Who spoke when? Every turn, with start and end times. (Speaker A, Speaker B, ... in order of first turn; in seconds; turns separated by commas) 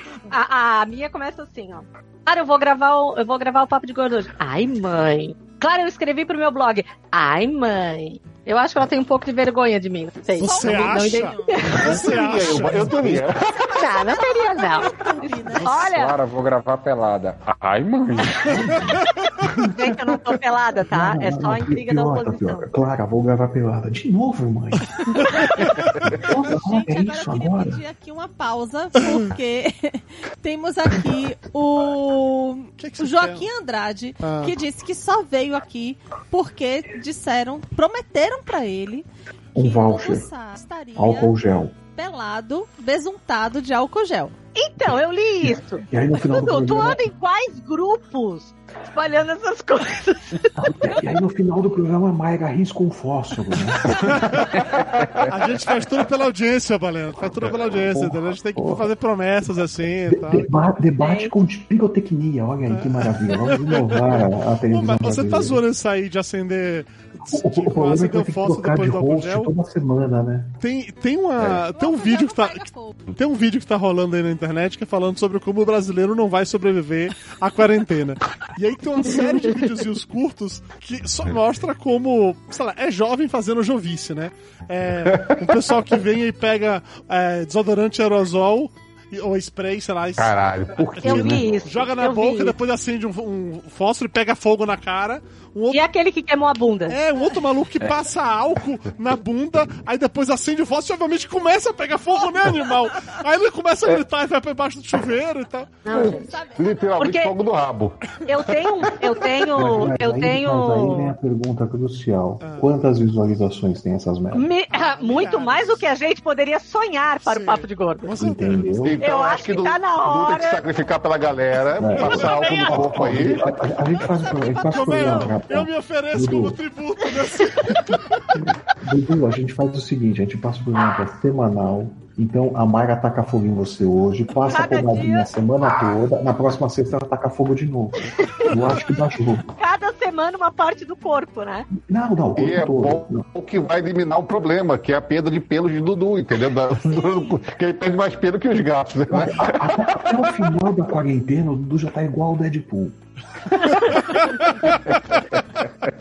Speaker A: 0.3-12.0, Speaker B: 10.4-13.0, Speaker C: 10.4-11.8, Speaker D: 11.7-13.7, Speaker C: 13.6-15.9, Speaker A: 13.7-16.2, Speaker E: 15.7-18.8, Speaker F: 18.5-19.7, Speaker A: 19.6-22.6, Speaker F: 20.9-27.8, Speaker C: 26.2-41.3, Speaker B: 32.8-33.5, Speaker B: 34.2-34.5, Speaker F: 39.5-40.3, Speaker F: 41.0-41.7, Speaker C: 42.0-44.3, Speaker A: 44.5-50.7, Speaker F: 45.4-47.0, Speaker F: 50.6-54.2, Speaker B: 53.9-54.6, Speaker E: 54.6-55.3, Speaker B: 55.3-60.5, Speaker F: 57.7-58.9, Speaker F: 60.1-65.6, Speaker A: 61.0-61.3, Speaker B: 62.7-69.5, Speaker F: 67.2-70.6, Speaker B: 70.6-90.3, Speaker C: 71.7-73.0, Speaker D: 90.2-91.7, Speaker B: 91.0-95.8, Speaker A: 91.0-92.5, Speaker E: 91.1-91.6, Speaker A: 95.7-97.0, Speaker B: 96.9-106.0, Speaker A: 105.8-106.4, Speaker D: 105.9-108.0, Speaker C: 106.0-107.0, Speaker A: 107.0-107.3, Speaker A: 108.2-111.1, Speaker F: 109.5-114.5, Speaker B: 112.4-112.7, Speaker A: 114.3-118.1, Speaker B: 114.7-115.9, Speaker B: 117.2-118.8, Speaker F: 118.2-119.0, Speaker D: 118.8-123.5, Speaker A: 119.0-120.6, Speaker F: 121.8-126.6, Speaker B: 122.0-122.8, Speaker B: 124.5-128.3, Speaker F: 128.3-139.5, Speaker A: 134.4-135.3, Speaker A: 138.3-138.6, Speaker A: 139.6-141.7, Speaker F: 141.8-143.2, Speaker D: 142.3-149.9, Speaker F: 149.1-152.9, Speaker A: 153.6-154.1, Speaker B: 154.0-154.5, Speaker E: 154.7-155.9